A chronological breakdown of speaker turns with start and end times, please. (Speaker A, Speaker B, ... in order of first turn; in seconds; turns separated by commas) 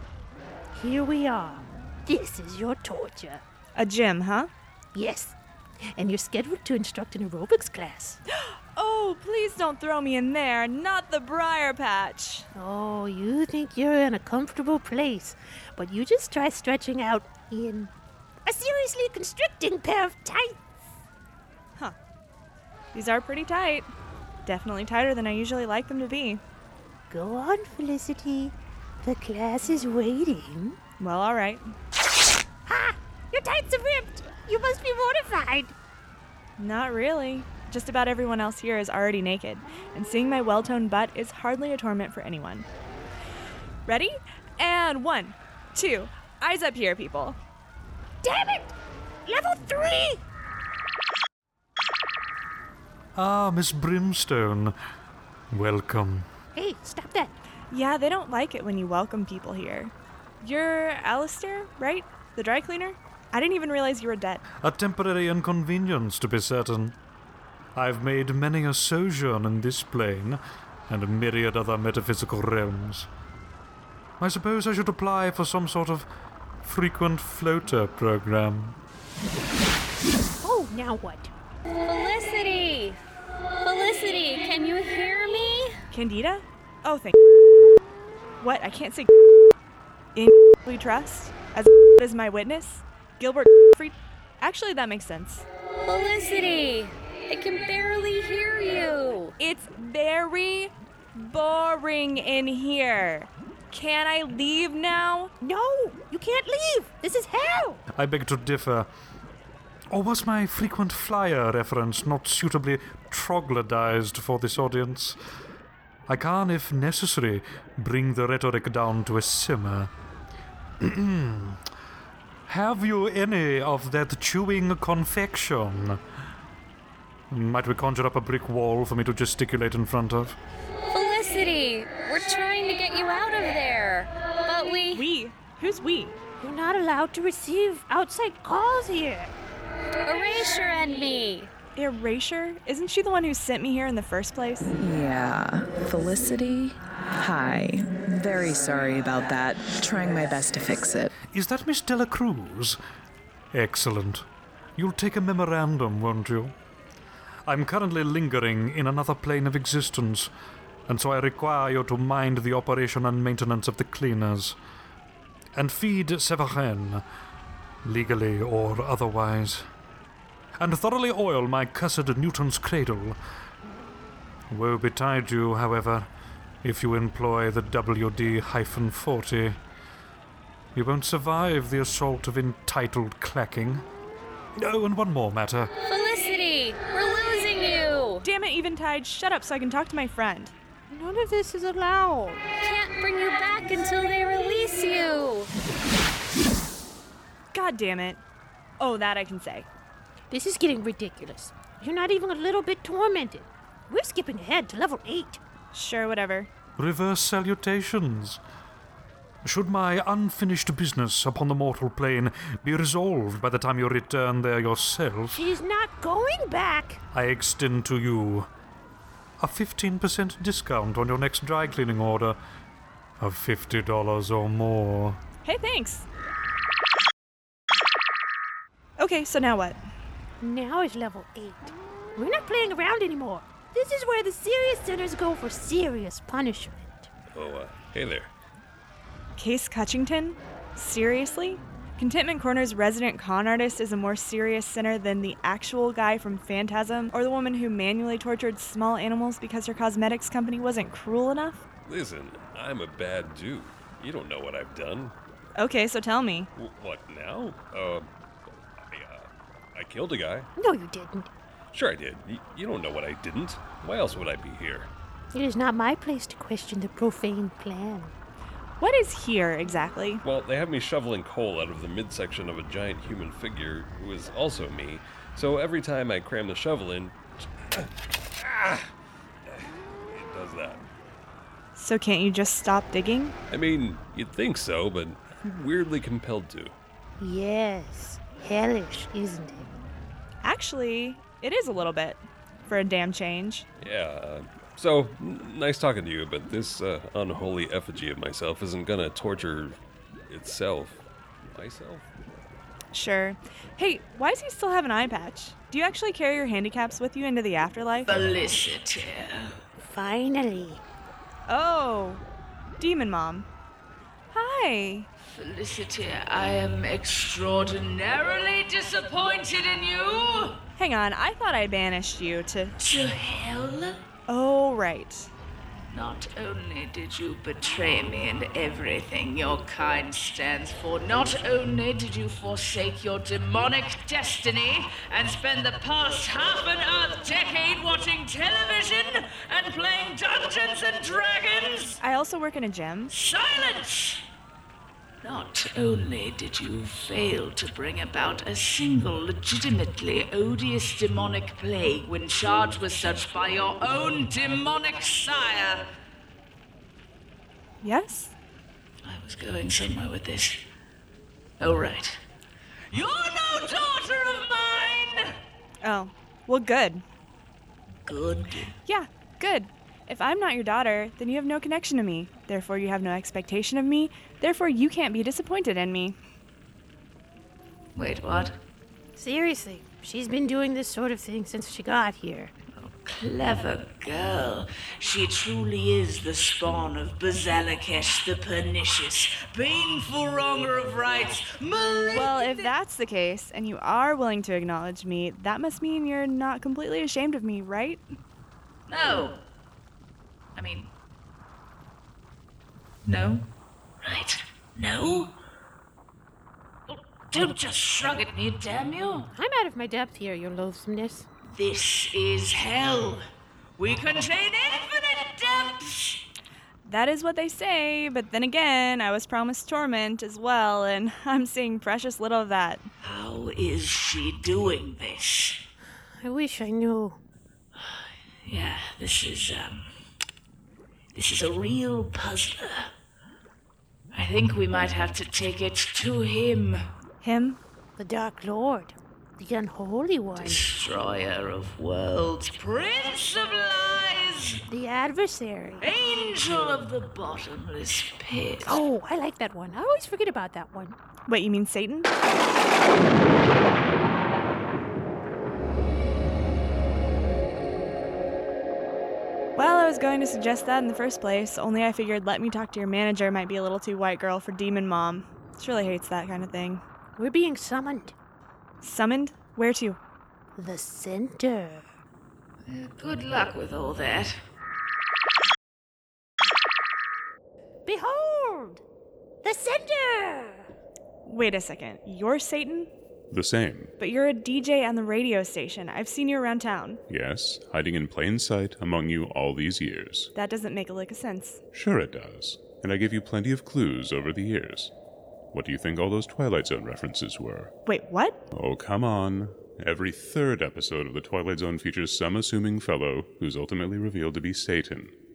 Speaker A: 0.7-3.4, Speaker B: 3.7-4.5, Speaker A: 4.9-5.3, Speaker A: 5.9-8.2, Speaker B: 8.4-12.5, Speaker A: 12.5-17.9, Speaker A: 18.4-20.7, Speaker B: 22.9-23.9, Speaker B: 24.4-26.4, Speaker A: 27.1-30.8, Speaker B: 31.0-31.7, Speaker A: 32.7-35.7, Speaker B: 36.6-42.7, Speaker B: 43.9-47.4, Speaker A: 48.2-48.7, Speaker A: 49.2-50.2, Speaker C: 53.1-54.7, Speaker C: 55.5-56.3, Speaker A: 56.5-57.3, Speaker B: 57.7-64.4, Speaker C: 64.6-66.9, Speaker C: 67.7-73.1, Speaker C: 74.2-76.1, Speaker C: 76.6-78.8, Speaker A: 80.4-81.3, Speaker D: 81.7-83.0, Speaker D: 83.6-85.8, Speaker B: 85.9-87.2, Speaker B: 88.4-89.1, Speaker B: 90.1-95.5, Speaker D: 95.8-99.3, Speaker B: 99.4-105.3, Speaker A: 105.4-107.8, Speaker C: 108.0-108.9, Speaker C: 109.9-115.2, Speaker C: 116.1-119.9, Speaker C: 120.8-121.6, Speaker C: 122.5-126.0, Speaker C: 127.3-130.4, Speaker D: 130.9-135.0, Speaker B: 134.9-136.2, Speaker A: 136.4-139.3, Speaker D: 140.0-141.5, Speaker B: 141.8-144.7, Speaker E: 144.8-151.1, Speaker C: 151.3-152.8, Speaker C: 153.5-154.2, Speaker C: 154.8-156.5, Speaker C: 157.4-160.3, Speaker C: 160.9-164.6, Speaker C: 165.5-167.0, Speaker C: 167.8-169.7, Speaker C: 170.6-173.2, Speaker C: 174.5-176.1, Speaker C: 176.6-179.6, Speaker C: 180.7-183.8, Speaker C: 184.6-185.7, Speaker D: 185.8-188.2, Speaker B: 188.2-190.5, Speaker A: 190.9-192.4, Speaker D: 192.6-195.5, Speaker B: 197.5-198.2, Speaker B: 198.8-199.7, Speaker A: 200.3-205.4, Speaker B: 205.7-206.5, Speaker C: 206.8-208.4, Speaker C: 209.4-215.4, Speaker A: 215.3-217.0, Speaker C: 217.1-218.5, Speaker C: 219.4-222.4, Speaker C: 223.2-225.2, Speaker B: 225.4-226.1, Speaker B: 229.0-229.8, Speaker A: 230.4-237.1, Speaker F: 237.3-238.3, Speaker B: 239.4-251.7, Speaker F: 251.8-255.1, Speaker B: 255.6-256.5, Speaker F: 256.6-258.1, Speaker F: 258.8-260.5, Speaker A: 260.6-261.3, Speaker F: 261.7-264.9, Speaker A: 265.3-268.1, Speaker B: 268.8-270.2, Speaker F: 270.2-278.9, Speaker F: 279.5-280.8, Speaker B: 281.7-283.4, Speaker F: 283.5-286.7, Speaker A: 287.2-289.7, Speaker B: 290.4-293.6, Speaker F: 293.8-299.8, Speaker F: 300.3-302.1, Speaker B: 302.9-308.1, Speaker G: 308.1-309.6, Speaker A: 309.8-310.8, Speaker B: 311.5-312.2, Speaker B: 312.8-313.5, Speaker B: 314.3-315.1, Speaker G: 315.2-320.6, Speaker B: 320.8-322.7, Speaker G: 322.8-324.0, Speaker B: 324.3-325.3, Speaker G: 325.9-342.0, Speaker B: 342.0-343.1, Speaker G: 343.1-344.2, Speaker G: 345.2-355.9, Speaker B: 357.8-358.3, Speaker G: 359.0-360.6, Speaker G: 361.6-362.2, Speaker G: 362.9-365.3, Speaker B: 365.8-367.0, Speaker G: 368.0-368.7, Speaker B: 368.9-376.2, Speaker G: 377.9-378.6, Speaker A: 379.1-382.5, Speaker G: 382.8-392.7, Speaker B: 392.1-398.0, Speaker G: 398.9-399.4, Speaker G: 400.6-400.9, Speaker G: 403.1-403.5, Speaker G: 404.0-405.3, Speaker G: 406.9-409.3, Speaker A: 409.3-411.3, Speaker G: 411.5-413.2, Speaker G: 413.8-416.2, Speaker B: 416.8-422.9, Speaker G: 423.0-425.6, Speaker A: 426.2-427.2, Speaker G: 427.8-429.9, Speaker G: 431.1-432.9, Speaker G: 434.1-436.9, Speaker B: 437.2-437.6, Speaker A: 438.0-440.7, Speaker G: 440.4-444.6, Speaker A: 444.7-445.9, Speaker G: 445.8-448.8, Speaker A: 448.6-450.9, Speaker B: 451.3-452.1, Speaker B: 459.6-466.8, Speaker A: 467.2-468.1, Speaker B: 468.8-470.0, Speaker A: 470.6-471.8, Speaker G: 472.6-474.4, Speaker A: 477.9-478.8, Speaker A: 479.4-480.7, Speaker B: 481.2-482.9, Speaker H: 483.3-483.9, Speaker B: 484.0-487.0, Speaker H: 487.1-490.3, Speaker B: 490.3-491.6, Speaker H: 491.7-494.9, Speaker H: 495.5-497.7, Speaker B: 497.9-498.4, Speaker H: 498.5-505.1